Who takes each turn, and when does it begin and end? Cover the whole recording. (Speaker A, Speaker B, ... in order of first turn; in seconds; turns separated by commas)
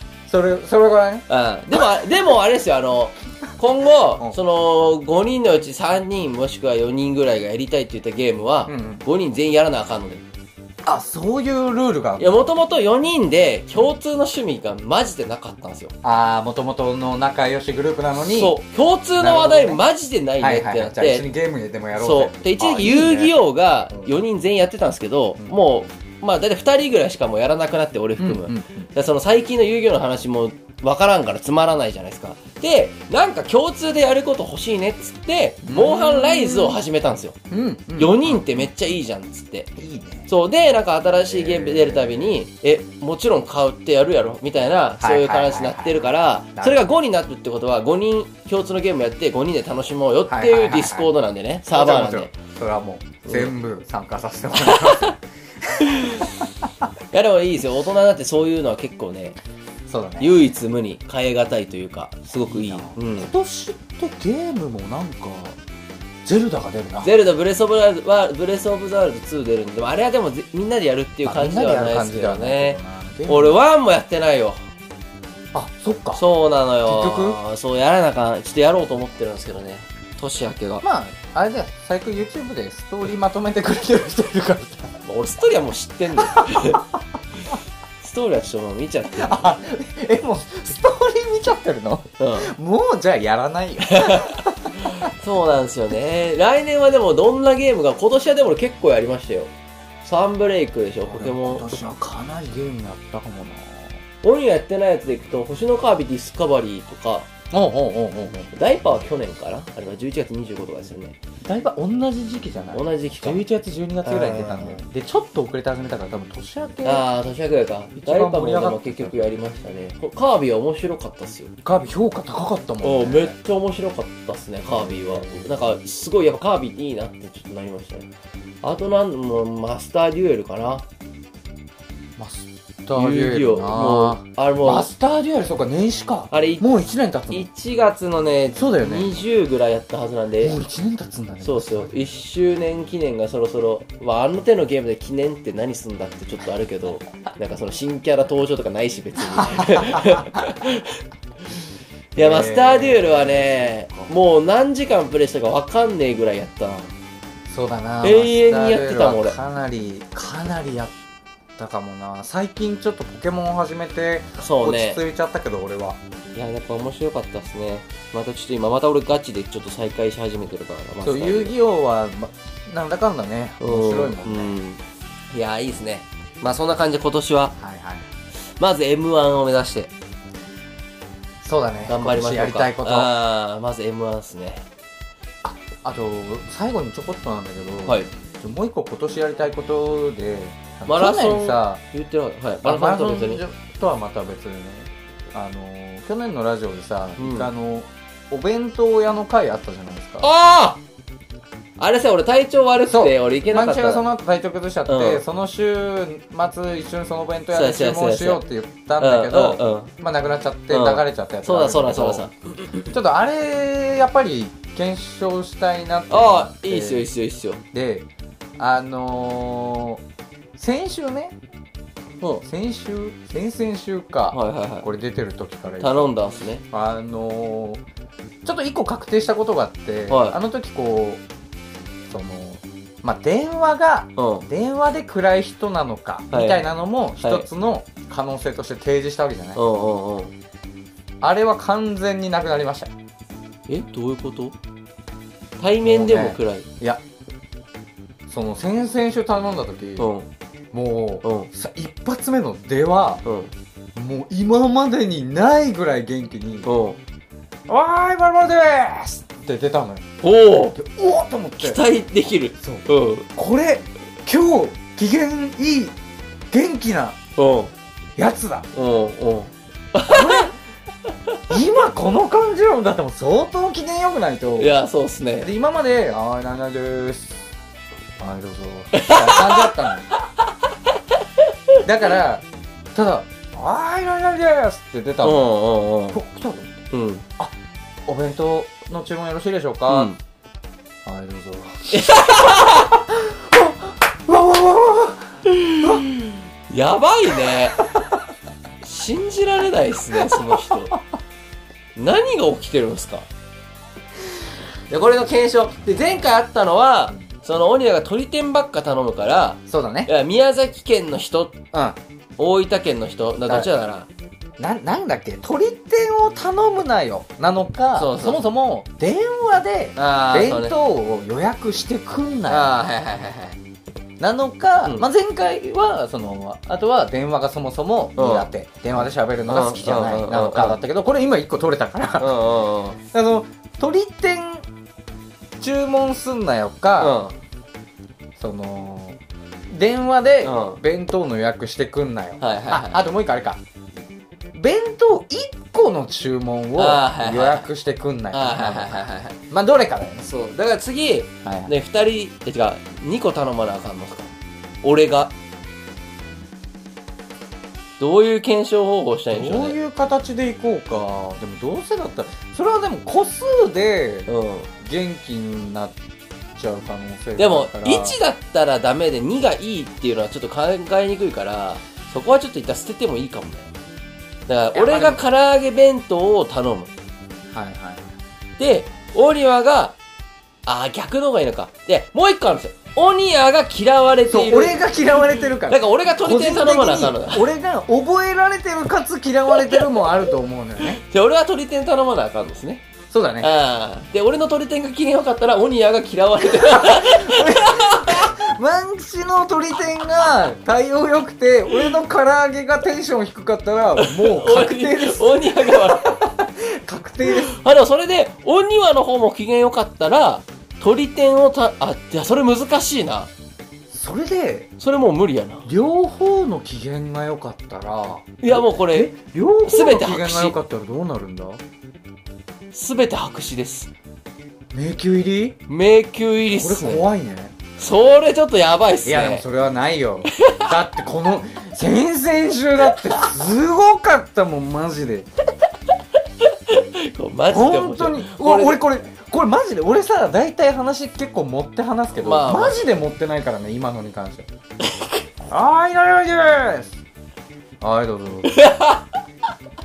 Speaker A: 0.3-1.9, Speaker B: 1.3-10.2, Speaker A: 8.7-9.0, Speaker A: 10.8-12.5, Speaker B: 12.2-15.9, Speaker A: 16.0-18.5, Speaker B: 18.1-21.3, Speaker A: 19.2-19.8, Speaker A: 20.4-23.3, Speaker B: 22.0-37.4, Speaker A: 28.2-28.9, Speaker A: 35.6-36.8, Speaker A: 37.5-38.7, Speaker B: 38.0-39.7, Speaker A: 39.8-40.3, Speaker B: 40.3-52.3, Speaker A: 41.3-42.3, Speaker A: 45.0-46.9, Speaker A: 50.3-51.1, Speaker A: 51.6-56.4, Speaker B: 53.2-53.5, Speaker B: 54.6-55.1, Speaker B: 55.8-56.3, Speaker B: 57.1-59.4, Speaker A: 59.9-60.4, Speaker B: 60.2-63.3, Speaker A: 62.5-65.6, Speaker A: 66.2-67.1, Speaker B: 67.0-74.6, Speaker A: 71.2-73.6, Speaker A: 75.5-76.2, Speaker B: 76.2-80.8, Speaker A: 76.8-77.4, Speaker A: 80.8-84.9, Speaker B: 85.0-86.8, Speaker A: 86.2-86.8, Speaker B: 88.0-89.4, Speaker A: 89.2-95.1, Speaker B: 92.2-92.5, Speaker B: 93.9-99.5, Speaker B: 100.0-101.8, Speaker A: 101.0-104.0, Speaker B: 104.2-107.3, Speaker A: 107.5-108.5, Speaker B: 108.5-111.2, Speaker A: 111.4-117.0, Speaker B: 112.7-113.4, Speaker B: 114.0-114.8, Speaker B: 116.8-121.5, Speaker A: 118.0-119.4, Speaker A: 121.6-123.3, Speaker B: 122.8-128.1, Speaker A: 124.7-125.5, Speaker B: 128.6-130.8, Speaker A: 132.2-137.5, Speaker B: 132.9-134.9, Speaker B: 136.3-140.6, Speaker A: 138.5-139.2, Speaker A: 140.4-142.1, Speaker B: 141.4-151.0, Speaker A: 149.2-150.5, Speaker B: 152.1-156.9, Speaker A: 152.2-154.1, Speaker A: 157.5-160.9, Speaker B: 158.0-159.3, Speaker A: 161.6-166.0, Speaker B: 164.4-165.0, Speaker B: 166.3-171.6, Speaker A: 171.0-174.5, Speaker B: 173.6-177.5, Speaker A: 177.6-178.1, Speaker B: 178.6-179.9, Speaker A: 181.4-183.1, Speaker B: 181.9-184.7, Speaker A: 185.4-191.8, Speaker B: 190.8-193.4, Speaker A: 192.6-200.3, Speaker B: 197.2-197.5, Speaker B: 200.2-200.8, Speaker B: 201.8-204.1, Speaker A: 202.9-212.3, Speaker B: 204.9-205.2, Speaker B: 207.5-208.4, Speaker B: 209.0-209.9, Speaker B: 210.7-212.9, Speaker A: 212.9-217.1, Speaker B: 216.1-217.6, Speaker A: 217.7-218.1, Speaker A: 218.6-220.0, Speaker A: 220.6-221.4, Speaker A: 222.4-226.1, Speaker B: 224.3-224.9, Speaker B: 225.8-226.6, Speaker A: 226.7-227.8, Speaker A: 228.4-231.2, Speaker B: 230.1-230.4, Speaker A: 232.1-239.6, Speaker B: 234.2-234.5, Speaker B: 236.3-236.6, Speaker B: 237.2-237.4, Speaker B: 239.6-240.3, Speaker A: 241.2-242.9, Speaker B: 243.7-244.5, Speaker B: 245.6-246.7, Speaker A: 245.8-247.0, Speaker A: 248.3-250.1, Speaker B: 250.0-250.3, Speaker A: 250.7-253.2, Speaker B: 251.2-251.5, Speaker B: 253.2-253.5, Speaker A: 253.9-256.7, Speaker B: 256.6-257.0, Speaker A: 257.7-260.1, Speaker B: 260.2-260.8, Speaker A: 260.7-261.8, Speaker B: 261.6-263.3, Speaker A: 262.6-266.0, Speaker A: 266.5-267.2, Speaker B: 267.4-267.7, Speaker A: 268.2-268.7, Speaker B: 268.7-270.5, Speaker A: 270.1-270.5, Speaker A: 271.5-274.7, Speaker B: 274.6-275.5, Speaker A: 275.4-277.5, Speaker A: 278.2-280.1, Speaker B: 278.9-279.9, Speaker B: 281.4-281.8, Speaker A: 281.8-285.5, Speaker B: 285.2-286.2, Speaker A: 286.1-286.8, Speaker B: 286.9-287.2, Speaker A: 288.1-290.1, Speaker B: 289.9-290.2, Speaker A: 291.0-296.0, Speaker B: 291.9-292.9, Speaker B: 295.4-297.8, Speaker A: 297.5-298.1, Speaker B: 298.8-300.9, Speaker A: 300.3-300.7, Speaker B: 301.9-303.3, Speaker B: 304.9-311.7, Speaker A: 309.7-310.1, Speaker A: 311.7-312.0, Speaker B: 312.4-314.1, Speaker A: 314.6-322.7, Speaker B: 317.9-318.4, Speaker B: 320.0-320.7, Speaker B: 322.5-323.6, Speaker A: 324.2-332.4, Speaker B: 328.1-328.5, Speaker B: 329.0-330.8, Speaker B: 332.2-333.0, Speaker A: 333.1-334.6, Speaker A: 335.6-337.2, Speaker B: 337.0-337.3, Speaker A: 338.4-339.2, Speaker A: 339.7-343.6, Speaker B: 340.4-340.8, Speaker B: 342.4-343.0, Speaker A: 344.5-348.9, Speaker B: 346.8-347.7, Speaker B: 348.3-349.4, Speaker A: 349.5-350.3, Speaker B: 350.2-354.3, Speaker A: 351.4-351.7, Speaker B: 354.8-355.3, Speaker B: 358.0-359.8, Speaker A: 359.3-364.3, Speaker B: 364.3-364.7, Speaker A: 364.8-365.9, Speaker A: 366.5-368.2, Speaker B: 367.4-373.7, Speaker B: 374.5-376.9, Speaker A: 374.7-375.2, Speaker A: 377.5-378.0, Speaker B: 378.6-379.9, Speaker B: 380.6-384.8, Speaker A: 384.3-391.0, Speaker B: 385.7-387.5, Speaker B: 390.8-392.8, Speaker A: 393.1-393.5, Speaker B: 393.4-398.3, Speaker A: 396.4-407.5, Speaker B: 404.0-406.2, Speaker B: 407.3-413.3, Speaker A: 413.9-414.7, Speaker B: 414.8-415.7, Speaker A: 415.6-421.6, Speaker B: 418.4-419.1, Speaker B: 419.6-420.6, Speaker B: 422.7-423.9, Speaker A: 424.7-425.6, Speaker B: 425.7-427.1, Speaker A: 426.5-427.6, Speaker B: 427.8-429.4, Speaker A: 429.0-435.3, Speaker B: 430.3-430.7, Speaker B: 436.4-438.8, Speaker A: 437.5-444.5, Speaker B: 442.2-442.8, Speaker A: 445.5-446.9, Speaker A: 447.8-448.6, Speaker B: 448.5-449.1